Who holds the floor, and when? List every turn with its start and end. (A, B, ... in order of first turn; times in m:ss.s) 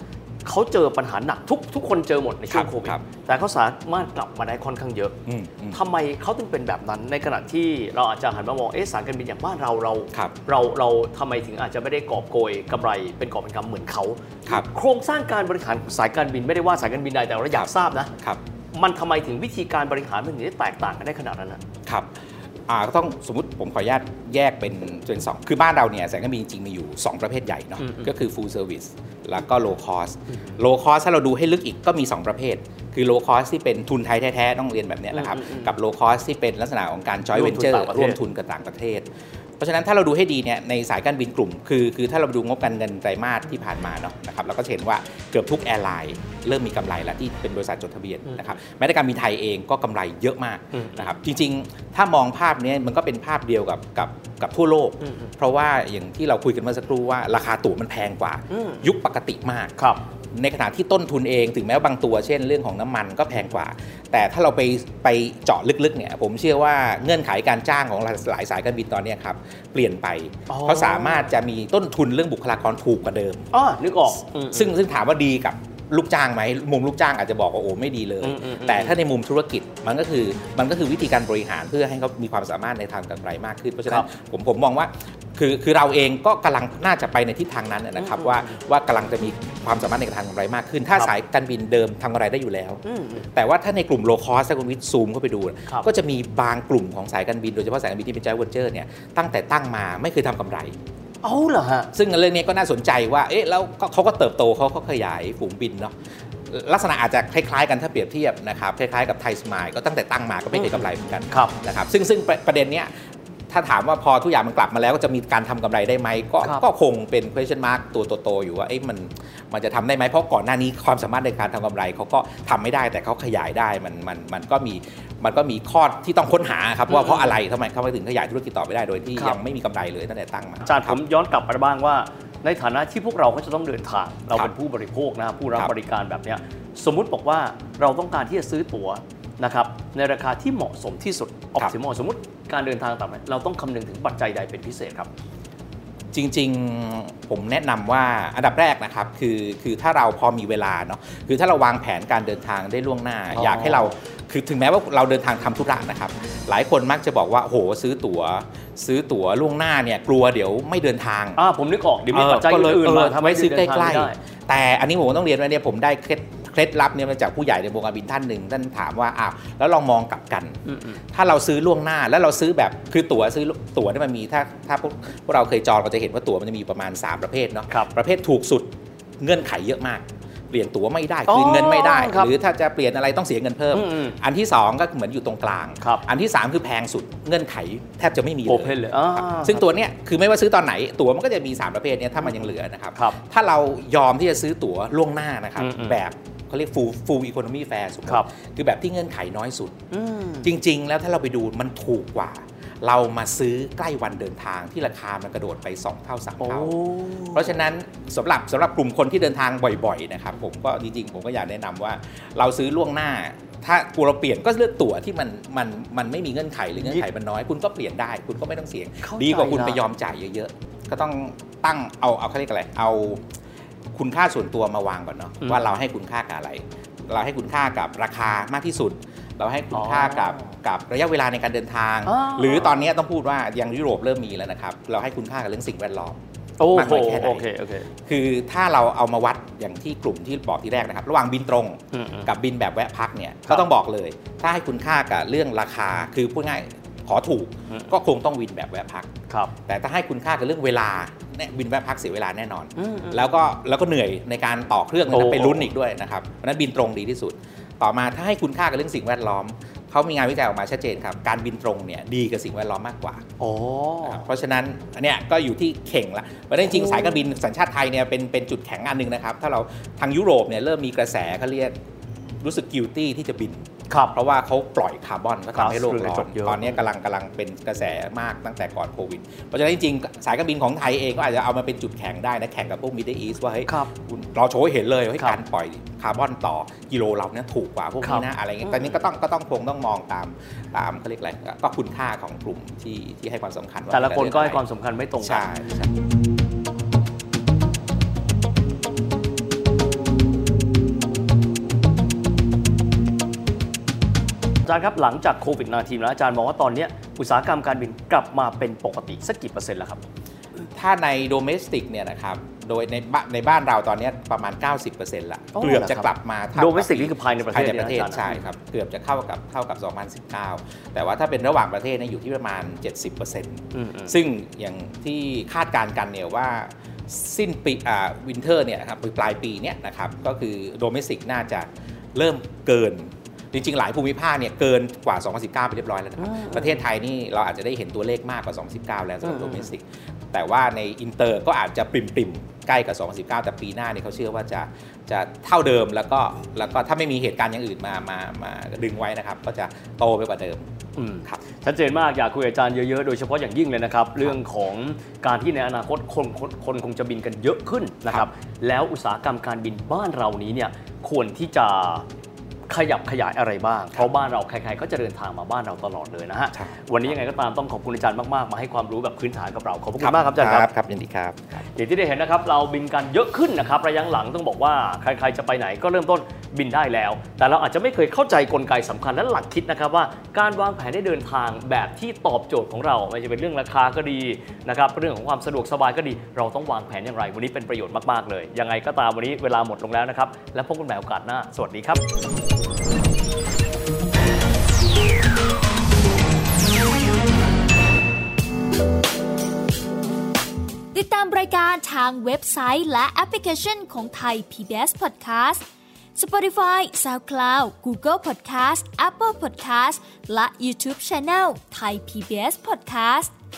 0:00.4-0:05.2 A
0:02.5-0:03.0 B
0:05.3-0:05.8 B
0:05.7-0:18.1 A
0:18.7-0:21.6 A
0:22.7-0:39.1 B
0:27.8-0:28.1 A
0:30.3-0:30.6 A
0:35.1-0:35.7 A
0:37.3-0:38.2 A
0:39.6-0:59.8 B
0:50.7-0:51.1 A
0:55.0-0:55.3 A
0:58.5-0:58.9 A
0:59.8-1:00.0 A
1:00.4-1:13.5 B
1:10.5-1:11.3 A
1:13.5-1:14.7 A
1:14.5-1:32.8 B
1:18.2-1:19.0 A
1:28.0-1:28.5 A
1:32.8-1:33.3 A
1:33.3-1:40.8 B
1:41.2-1:41.9 A
1:41.9-1:45.9 B
1:46.5-1:52.9 B
1:50.6-1:51.6 A
1:53.5-2:11.0 B
2:06.9-2:07.3 A
2:10.6-2:25.1 A
2:26.1-2:41.4 B
2:33.3-2:34.0 A
2:41.4-2:44.2 A
2:42.1-2:50.6 B
2:50.7-2:51.0 A
2:51.1-2:58.7 B
2:59.2-3:19.8 B
3:01.3-3:02.3 A
3:03.7-3:04.2 A
3:08.5-3:09.6 A
3:12.2-3:13.2 A
3:15.6-3:16.0 A
3:19.9-3:20.5 A
3:20.4-3:26.8 B
3:26.4-3:27.6 A
3:27.3-3:43.2 B
3:39.0-3:39.8 A
3:43.9-3:56.2 B
3:49.7-3:50.5 A
3:52.1-3:52.8 A
3:56.6-3:57.9 A
3:56.7-3:57.5 B
3:58.1-4:09.1 B
4:01.9-4:02.3 A
4:09.7-4:23.2 B
4:12.8-4:13.2 A
4:15.1-4:15.7 A
4:23.4-4:24.2 A
4:24.0-4:31.8 B
4:32.4-4:54.6 B
4:33.9-4:34.2 A
4:35.5-4:36.8 A
4:43.7-4:43.9 A
4:48.0-4:49.0 A
4:53.9-4:55.5 A
4:55.2-4:55.9 B
5:04.7-5:10.0 A
5:10.7-5:50.6 B
5:15.6-5:18.4 A
5:23.7-5:24.2 A
5:36.2-5:36.8 A
5:39.2-5:39.7 A
5:51.0-6:02.1 A
6:02.7-6:10.7 A
6:06.5-6:06.8 B
6:10.0-6:11.6 B
6:11.8-6:32.0 A
6:40.9-6:53.3 C